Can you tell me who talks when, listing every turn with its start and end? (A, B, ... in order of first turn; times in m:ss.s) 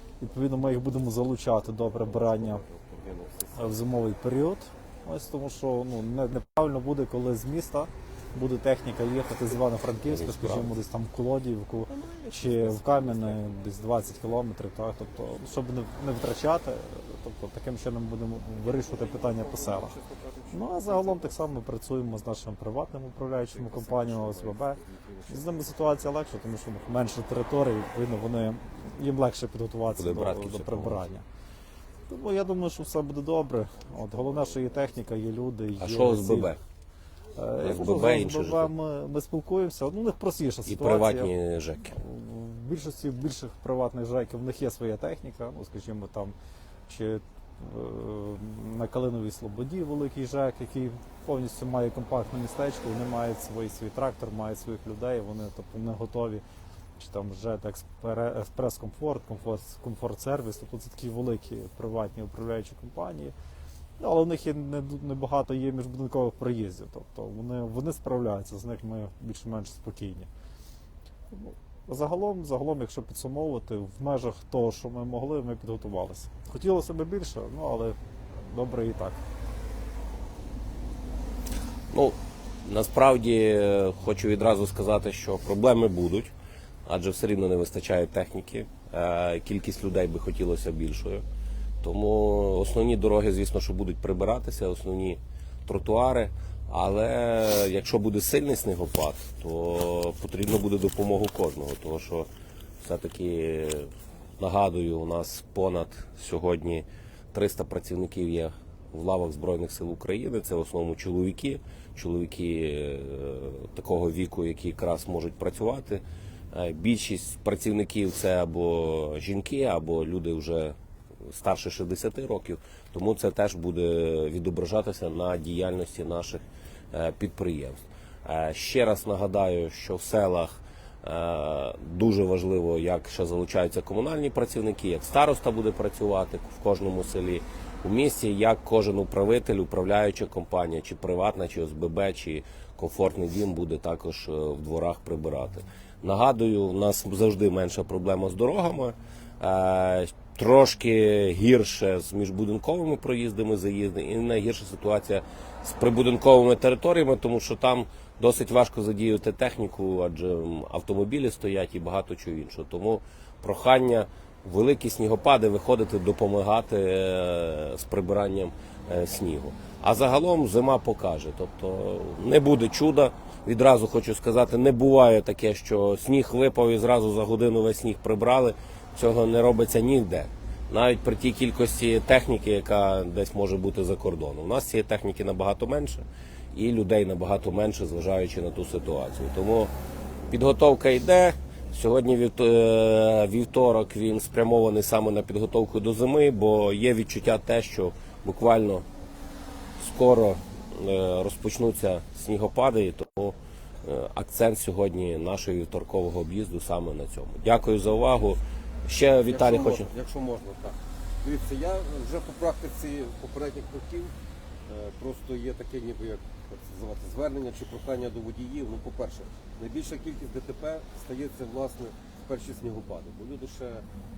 0:00.2-0:02.6 A
0:02.1-0:03.8 B
0:03.6-0:20.0 A
0:10.1-0:10.7 C
0:11.9-0:13.4 B
0:18.8-0:21.2 B
0:20.5-0:31.2 A
0:23.4-0:26.0 B
0:30.0-0:31.0 C
0:32.1-0:36.5 A
0:35.8-0:36.6 C
0:37.4-0:41.3 A
0:37.6-0:38.7 C
0:40.7-0:42.0 C
0:41.9-0:46.4 A
0:46.9-0:56.4 A
0:57.0-1:03.3 A
1:04.0-1:10.3 A
1:11.3-1:19.2 A
1:21.9-1:26.3 C
1:26.9-1:31.2 C
1:31.8-1:42.3 C
1:42.8-2:00.8 C
2:01.3-3:09.7 C
3:10.3-3:18.8 C
3:19.8-3:29.9 C
3:29.3-3:34.1 B
3:34.7-3:43.9 B